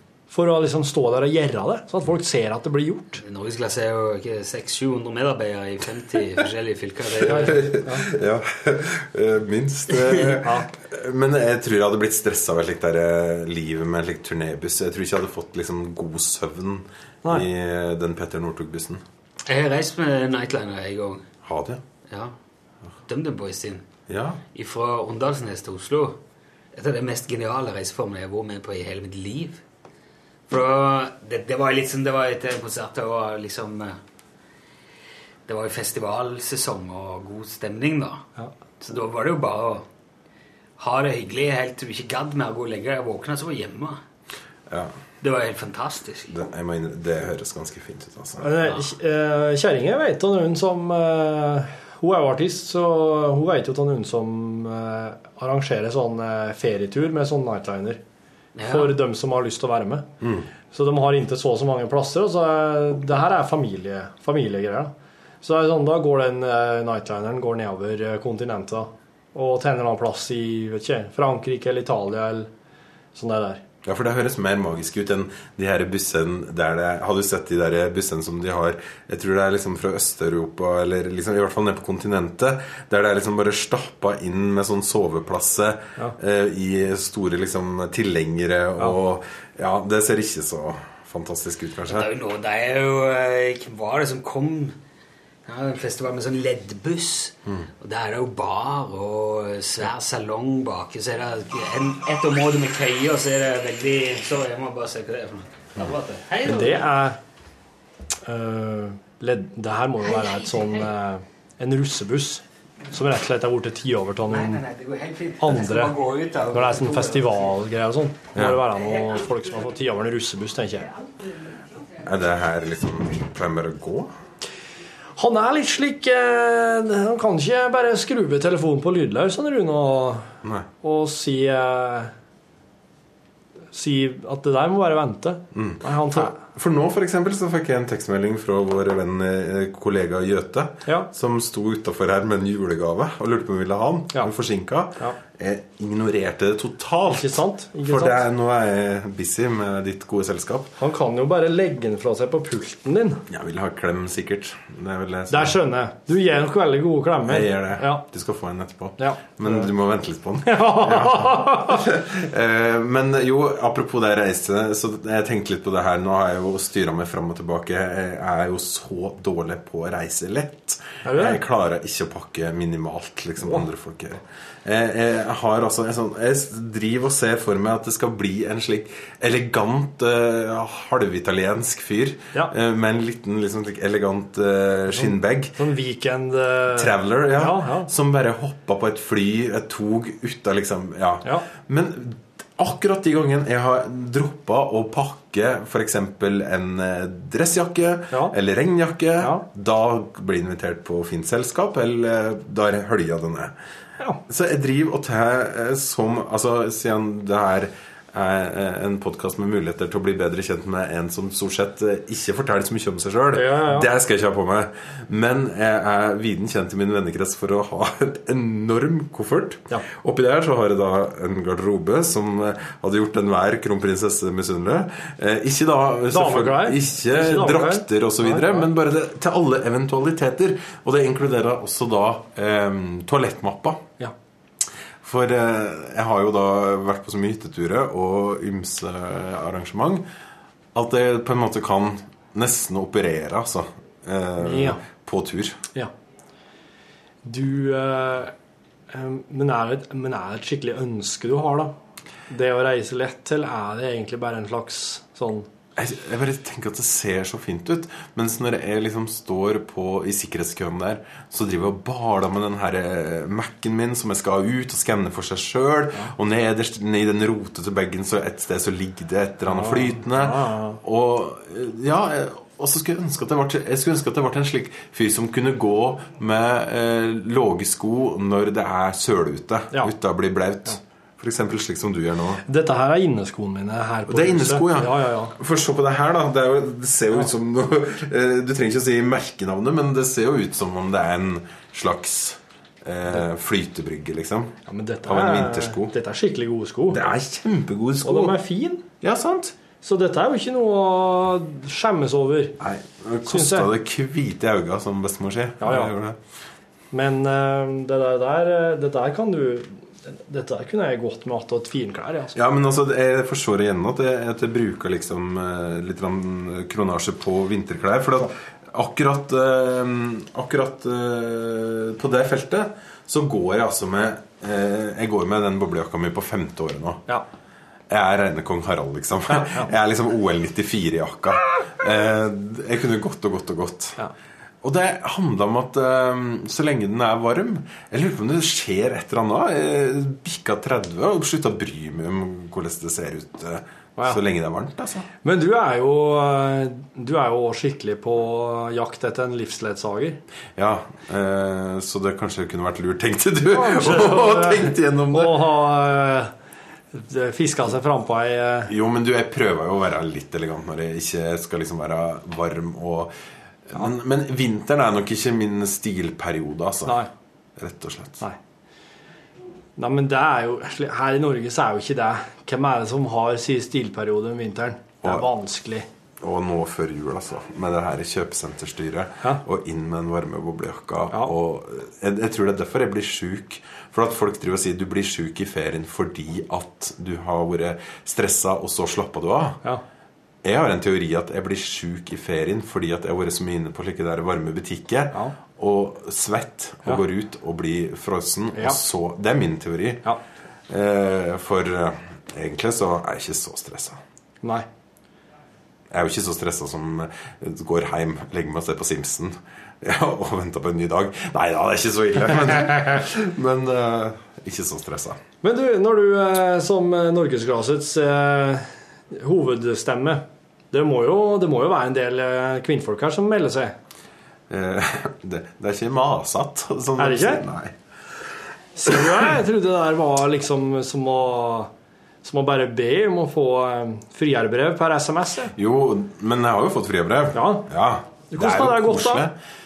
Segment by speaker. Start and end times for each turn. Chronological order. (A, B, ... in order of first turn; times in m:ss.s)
0:00.3-0:03.2 A
0:03.2-0:07.6 B
0:07.2-0:19.0 C
0:07.3-0:08.1 A
0:10.4-0:10.7 A
0:19.4-0:21.3 B
0:21.4-0:21.8 C
0:22.1-0:22.3 B
0:23.0-0:23.9 B
0:24.1-0:24.4 C
0:24.5-0:26.2 B
0:26.7-0:29.6 B
0:30.5-0:34.0 B
0:35.5-0:38.2 B
0:38.8-0:39.8 B
0:40.8-0:44.0 B
0:45.2-0:46.3 B
0:46.3-0:48.5 C
0:48.4-0:58.0 A
0:58.6-0:58.9 B
0:58.6-1:00.1 A
1:00.2-1:00.5 C
1:00.7-1:12.5 A
1:13.1-1:13.6 A
1:13.8-1:32.1 C
1:31.9-1:34.8 B
1:35.4-1:46.9 B
1:46.4-1:47.2 A
1:48.2-1:54.6 A
1:50.0-1:50.9 B
1:54.3-1:57.6 B
1:55.4-1:56.0 A
1:56.5-2:00.9 A
1:58.3-1:58.6 C
1:58.9-1:59.3 B
2:02.0-2:04.1 C
2:05.2-2:10.3 A
2:10.8-2:12.1 A
2:13.7-2:16.4 A
2:15.5-2:30.7 C
2:27.1-2:28.2 A
2:30.8-2:33.2 A
2:33.3-2:35.6 C
2:35.3-2:38.0 A
2:37.2-3:05.5 C
2:39.0-2:39.7 A
2:40.5-2:41.8 A
2:51.0-2:51.4 A
3:05.0-3:07.9 A
3:06.7-3:23.5 C
3:19.2-3:19.4 A
3:24.3-3:53.9 C
3:33.3-3:33.9 A
3:46.1-3:48.7 A
3:55.0-4:00.0 C
4:00.7-4:05.6 C
4:04.4-4:04.8 A
4:07.2-4:08.3 A
4:08.9-4:11.7 A
4:12.3-4:15.5 A
4:15.8-4:42.4 C
4:29.5-4:30.8 A
4:42.4-4:45.3 A
4:44.1-4:55.9 C
4:54.7-4:57.0 A
4:56.9-4:58.4 C
4:58.0-4:58.8 A
4:59.0-4:59.6 C
4:59.8-5:02.6 A
5:02.6-5:06.2 C
5:03.2-5:03.7 A
5:05.6-5:05.9 A
5:06.9-5:12.4 A
5:12.3-5:27.0 C
5:27.9-5:34.0 C
5:29.3-5:29.7 A
5:34.6-5:45.1 C
5:45.2-5:50.2 A
5:50.6-5:55.4 C
5:53.5-5:56.3 A
5:56.9-5:58.7 A
5:58.7-6:03.1 C
6:03.7-6:07.0 C
6:07.6-6:08.2 C
6:09.8-6:15.9 A
6:16.2-6:29.6 C
6:30.4-6:40.0 C
6:40.7-6:44.0 C
6:44.4-6:44.7 A
6:45.9-6:55.2 C
6:55.4-7:03.8 A
7:04.5-7:07.7 C
7:07.0-7:07.4 A
7:08.8-7:11.7 A
7:12.2-7:15.5 A
7:15.6-7:19.3 C
7:17.3-7:17.7 A
7:18.3-7:19.3 A